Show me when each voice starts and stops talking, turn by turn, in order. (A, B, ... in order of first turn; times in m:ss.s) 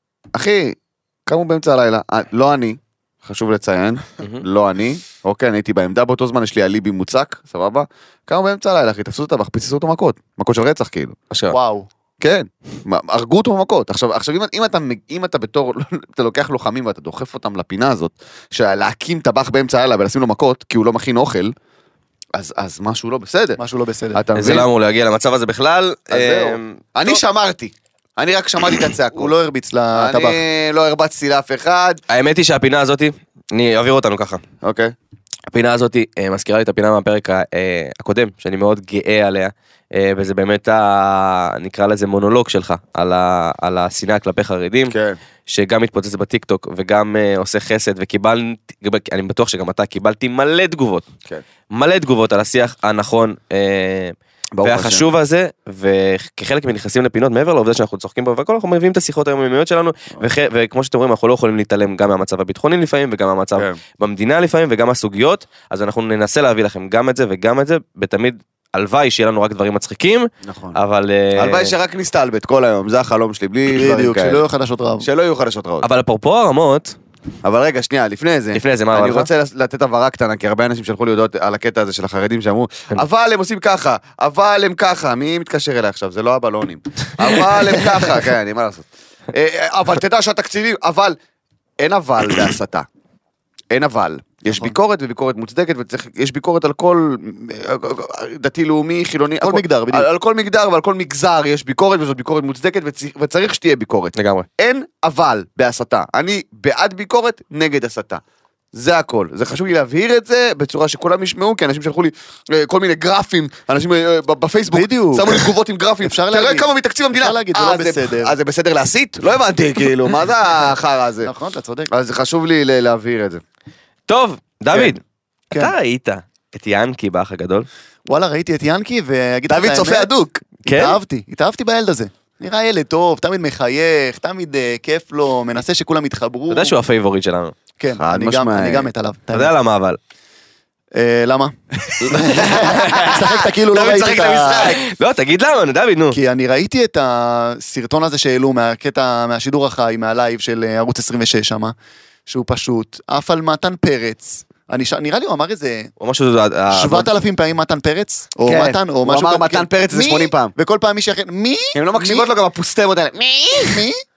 0:00.3-0:11.2 A
0:11.3-0:11.6 B
0:11.5-0:11.9 C
0:12.2-0:21.5 A
0:22.3-0:23.6 A
0:23.6-0:24.2 C
0:24.1-0:24.7 A
0:24.4-0:27.2 B
0:26.1-0:29.3 A
0:29.1-0:30.4 C
0:29.9-0:32.0 A
0:32.1-0:34.4 B
0:34.6-0:34.9 A
0:35.5-0:44.9 B
0:44.9-0:45.2 A
0:45.5-0:51.1 B
0:51.7-1:11.7 B
0:54.5-0:55.1 A
1:10.4-1:10.8 A
1:11.3-1:14.4 A
1:13.7-1:15.1 C
1:15.0-1:15.9 A
1:15.8-1:16.9 B
1:17.4-1:31.2 A
1:18.5-1:19.3 B
1:31.8-1:32.8 A
1:33.7-1:48.2 A
1:39.4-1:40.1 C
1:44.2-1:44.4 B
1:48.7-2:01.3 A
1:54.7-1:55.5 C
1:56.0-1:58.3 C
2:01.2-2:01.9 C
2:01.9-2:03.4 A
2:04.1-2:05.0 B
2:05.5-2:07.7 B
2:08.1-2:16.7 C
2:09.5-2:10.4 A
2:10.6-2:11.0 B
2:16.5-2:17.6 B
2:17.8-2:19.5 C
2:18.0-2:18.9 A
2:19.3-2:20.0 B
2:20.9-2:24.8 C
2:22.0-2:24.8 A
2:22.1-2:23.2 B
2:24.2-2:26.2 B
2:26.1-2:31.7 C
2:32.3-2:35.9 C
2:36.0-2:37.1 B
2:36.7-2:42.3 C
2:38.4-2:40.5 A
2:41.7-2:43.8 A
2:43.7-2:44.0 C